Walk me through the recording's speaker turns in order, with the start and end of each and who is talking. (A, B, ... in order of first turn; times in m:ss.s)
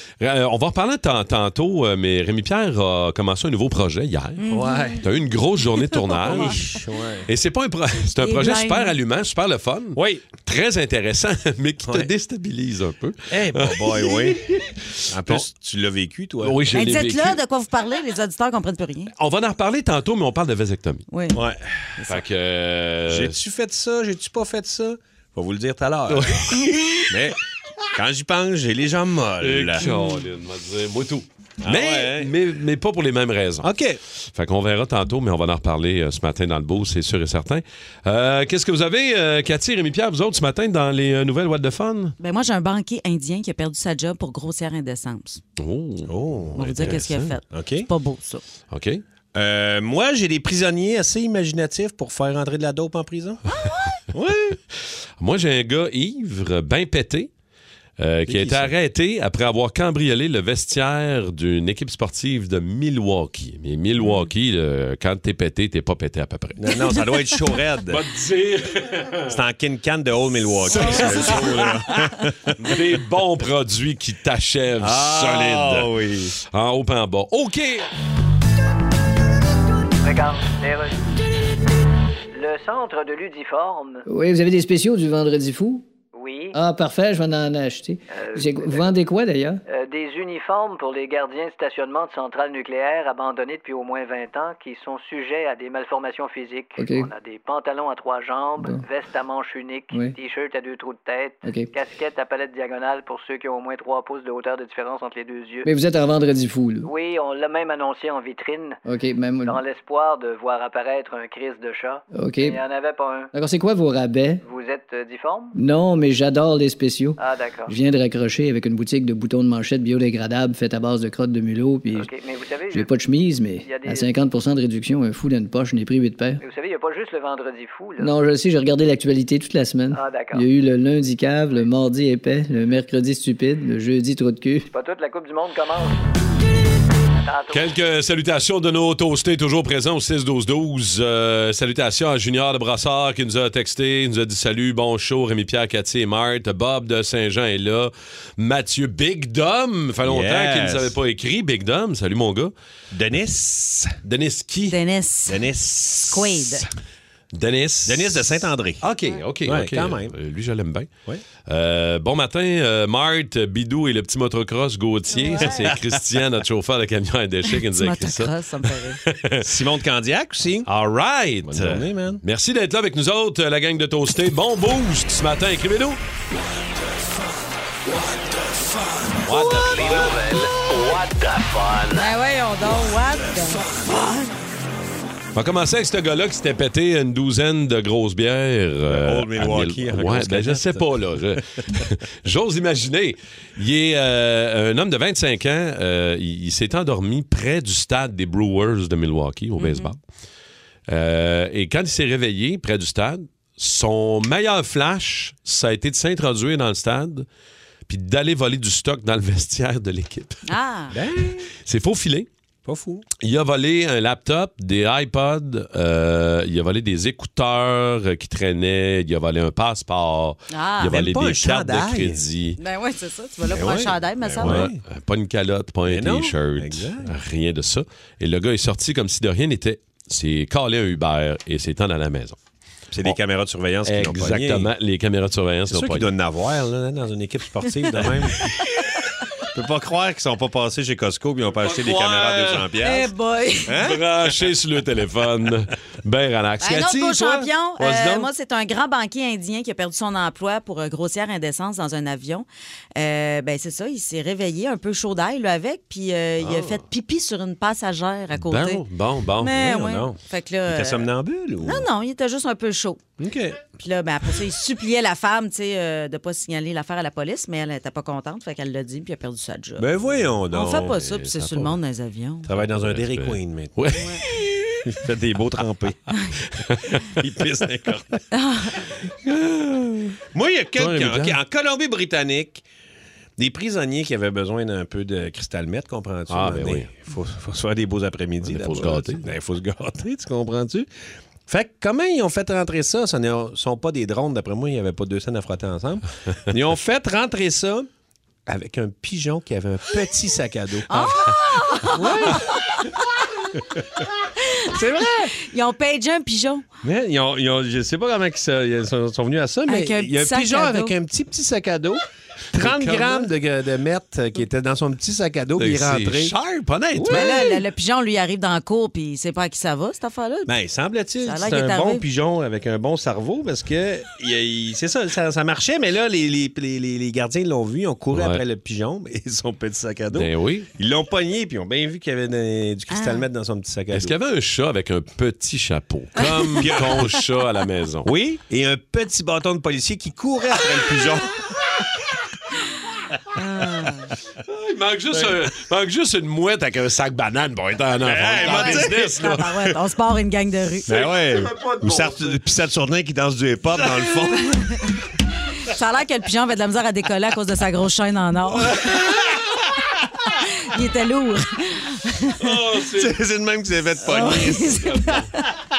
0:00.2-0:04.5 A
0:04.4-0:05.0 B
0:04.5-0:05.0 C
0:05.0-0:06.7 A
0:05.9-0:06.6 B
0:06.2-0:07.3 C
0:07.3-0:15.4 A
0:08.2-0:08.9 B
0:09.9-0:10.2 C
0:11.8-0:12.1 C
0:13.3-0:14.4 C
0:15.1-0:16.6 C
0:16.4-0:17.4 A
0:16.7-0:19.1 B
0:19.2-0:21.0 A
0:21.1-0:21.4 B
0:21.3-0:21.6 C
0:22.1-0:23.4 A
0:23.1-0:26.6 C
0:26.1-0:27.1 A
0:27.1-0:27.4 C
0:27.9-0:29.8 C
0:29.4-0:33.7 A
0:29.8-0:30.2 B
0:31.6-0:32.3 C
0:33.6-0:34.0 C
0:34.3-0:42.1 A
0:42.2-0:45.4 B
0:45.6-0:47.3 A
0:46.1-0:47.9 C
0:46.6-0:48.4 B
0:48.7-0:49.0 A
0:49.3-0:53.4 C
0:53.5-0:54.0 B
0:54.1-0:54.6 C
0:55.2-0:57.3 A
0:58.0-1:07.0 A
0:58.2-0:58.7 C
1:06.6-1:08.0 C
1:07.9-1:09.4 A
1:09.3-1:12.3 C
1:10.6-1:15.9 A
1:10.9-1:11.3 B
1:14.8-1:16.3 C
1:16.5-1:17.9 A
1:20.0-1:21.0 D
1:22.3-1:24.1 D
1:24.1-1:25.8 E
1:26.1-1:26.6 D
1:26.5-1:29.6 E
1:28.1-1:28.9 D
1:29.7-1:45.7 D
1:36.8-1:37.1 E
1:41.4-1:41.7 E
1:45.7-1:46.9 E
1:46.8-1:48.8 D
1:48.8-1:49.6 E
1:49.4-1:53.3 D
1:52.1-1:52.6 E
1:53.3-1:54.4 E
1:54.4-1:55.6 D
1:55.5-2:02.1 E
1:57.2-1:57.7 D
2:01.9-2:02.9 D
2:02.7-2:06.4 E
2:03.6-2:04.1 D
2:06.4-2:08.1 D
2:08.0-2:14.7 E
2:09.9-2:10.5 D
2:14.7-2:16.0 D
2:17.2-2:17.7 D
2:17.5-2:32.5 A
2:30.0-2:30.9 C
2:32.9-2:34.0 C
2:34.0-2:34.8 A
2:34.7-2:35.5 B
2:35.3-2:36.7 C
2:36.0-2:36.6 B
2:37.3-2:40.9 A
2:37.8-2:38.8 C
2:39.4-2:40.2 C
2:41.5-2:49.5 A
2:45.1-2:45.7 B
2:45.4-2:45.8 C
2:47.5-2:49.0 B
2:49.4-2:50.7 C
2:50.7-2:56.0 A
2:51.4-2:52.2 C
2:59.2-3:02.0 F
2:59.2-3:00.1 C
3:01.9-3:04.2 B
3:05.3-3:20.0 A
3:08.9-3:10.9 C
3:19.6-3:19.9 B
3:20.9-3:27.2 A
3:27.8-3:30.4 A
3:30.5-3:30.9 B
3:30.9-3:31.5 C
3:31.6-3:32.3 A
3:32.6-3:33.0 C
3:33.2-3:42.6 A
3:40.5-3:41.0 B
3:40.8-3:42.2 C
3:42.6-3:44.7 B
3:43.5-3:44.8 C
3:44.4-3:52.4 A
3:45.9-3:47.1 C
3:52.9-3:54.7 C
3:53.8-3:56.1 A
3:55.7-3:58.4 C
3:59.5-4:03.1 C
4:01.6-4:02.7 A
4:02.8-4:03.8 B
4:03.7-4:04.0 C
4:03.8-4:07.5 A
4:06.6-4:18.8 B
4:07.8-4:08.3 C
4:16.4-4:16.8 A
4:18.3-4:19.7 A
4:19.4-4:21.1 B
4:19.5-4:21.9 C
4:21.6-4:23.0 B
4:23.2-4:23.6 C
4:23.8-4:29.9 B
4:29.8-4:31.0 C
4:30.2-4:31.8 A
4:30.5-4:32.5 B
4:32.5-4:33.8 C
4:32.5-4:34.8 A
4:33.9-4:34.2 B
4:34.8-4:36.0 C
4:36.6-4:37.2 A
4:37.2-4:38.2 C
4:38.3-4:38.8 B
4:39.2-4:42.6 C
4:40.8-4:41.4 A
4:43.4-4:50.9 C
4:46.3-4:46.9 A
4:48.4-4:49.3 A
4:51.5-4:57.9 C
4:58.5-5:00.9 C
5:00.9-5:02.9 B
5:01.9-5:02.5 C
5:04.4-5:06.6 B
5:04.7-5:05.3 C
5:06.8-5:12.0 C
5:09.7-5:10.9 B
5:12.5-5:17.6 C
5:12.6-5:13.3 A
5:15.6-5:16.4 A
5:16.9-5:17.3 A
5:17.1-5:20.5 B
5:20.5-5:34.1 C
5:21.2-5:22.0 B
5:28.1-5:28.4 A
5:30.1-5:30.7 A
5:32.9-5:33.2 B
5:33.9-5:38.1 A
5:36.2-5:36.6 B
5:36.6-5:37.1 C
5:38.0-5:41.4 C
5:43.4-5:44.0 B
5:44.5-5:49.7 A
5:48.0-5:49.1 C
5:48.4-5:50.9 B
5:50.9-5:54.5 C
5:50.9-5:52.4 A
5:55.6-5:58.9 B
5:58.9-5:59.3 A
6:00.2-6:02.5 B
6:02.4-6:03.2 A
6:02.9-6:04.9 C
6:04.0-6:05.4 B